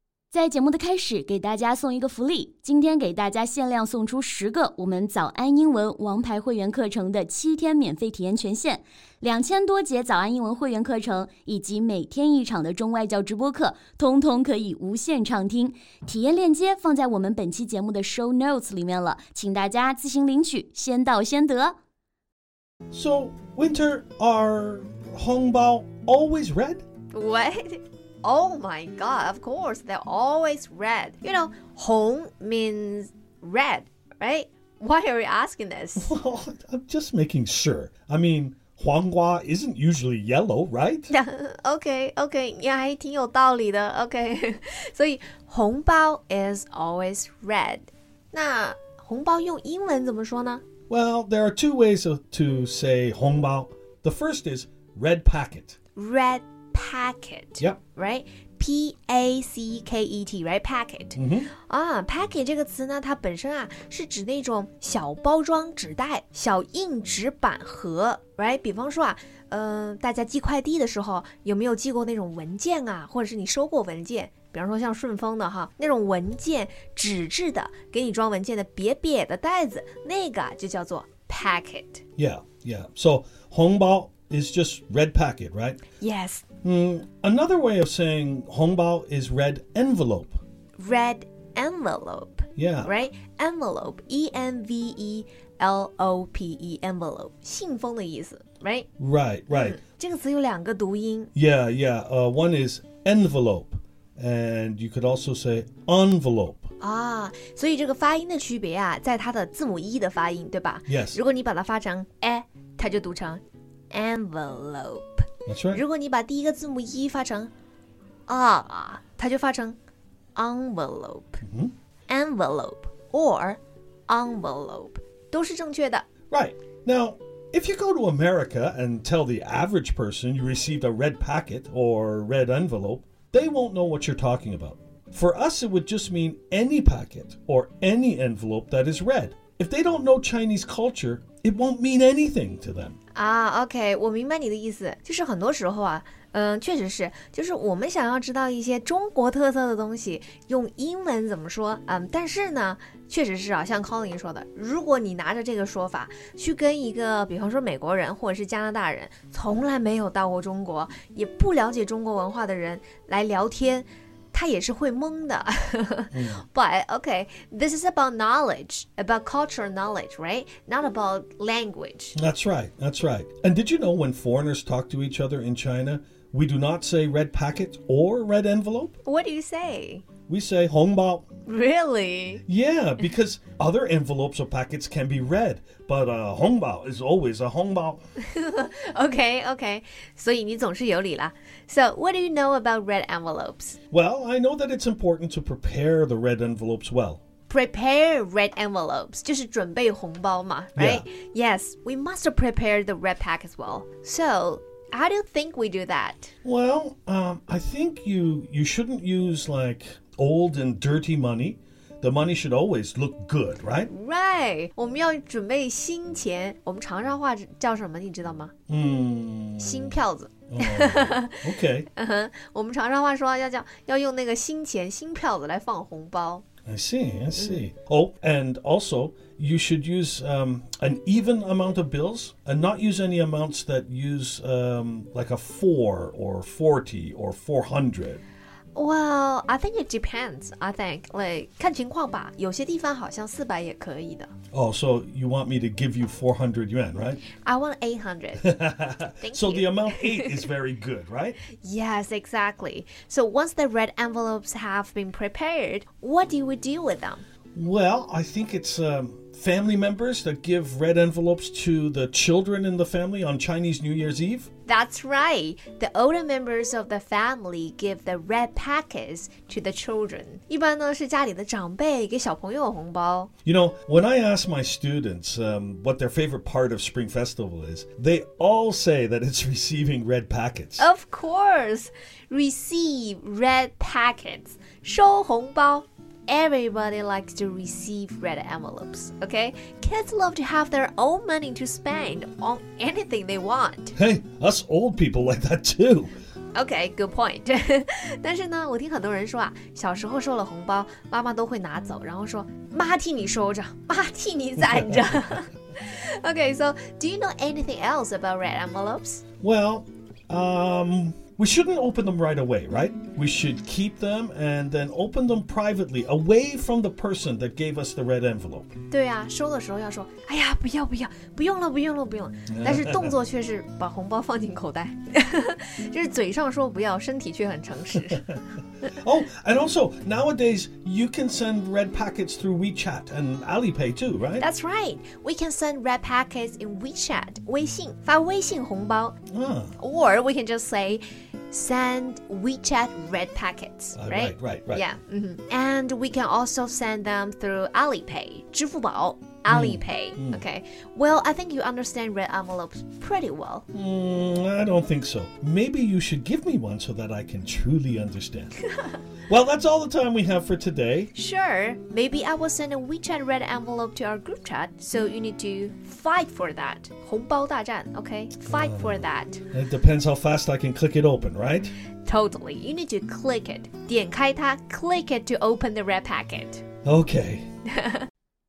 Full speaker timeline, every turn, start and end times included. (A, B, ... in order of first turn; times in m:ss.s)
0:00.3-0:21.8 A
0:22.9-0:26.8 B
0:27.1-0:36.1 C
0:36.0-0:41.1 B
0:41.1-0:50.6 C
0:50.9-0:55.8 B
0:56.0-1:22.0 C
1:01.1-1:01.5 B
1:22.2-1:25.8 B
1:26.0-1:26.4 C
1:26.6-1:30.4 B
1:30.8-1:38.9 C
1:32.6-1:32.9 B
1:39.0-1:39.8 B
1:39.5-1:41.3 C
1:41.3-1:46.7 B
1:46.8-1:57.5 C
1:50.9-1:51.2 B
1:55.4-1:55.8 B
1:58.3-1:59.8 C
2:00.3-2:01.4 C
2:01.5-2:01.7 B
2:02.1-2:06.1 C
2:06.3-2:23.0 B
2:23.1-2:52.2 C
2:46.1-2:46.4 B
2:52.1-2:59.0 B
2:59.0-3:00.0 C
3:00.3-3:01.2 B
3:01.4-3:02.4 C
3:02.5-3:08.0 B
3:08.2-3:13.8 C
3:13.9-3:17.2 B
3:17.5-3:26.3 C
3:20.8-3:21.0 B
3:26.4-3:33.9 B
3:33.9-3:38.5 C
3:38.7-3:41.9 B
3:39.6-3:46.4 C
3:46.6-3:58.2 B
3:47.4-3:47.6 C
3:58.7-4:04.3 C
4:04.5-4:07.2 B
4:07.3-4:08.6 C
4:08.4-4:11.4 B
4:09.2-4:10.5 C
4:11.5-4:17.2 C
4:17.5-4:24.5 B
4:24.6-4:33.3 C
4:33.4-4:40.9 B
4:40.8-4:53.9 C
4:53.9-4:56.1 B
4:56.5-5:09.2 C
5:09.4-5:18.7 B
5:18.9-5:28.2 C
5:22.5-5:23.2 B
5:28.9-5:34.4 B
5:34.4-5:39.2 C
5:39.3-5:39.8 B
5:39.8-5:53.6 C
5:44.0-5:44.8 B
5:49.5-5:50.4 B
5:53.7-5:58.6 B
5:59.3-6:01.1 B
6:01.1-6:09.4 C
6:08.5-6:11.7 B
6:12.0-6:16.6 C
6:16.8-6:17.4 B
6:17.7-6:18.0 C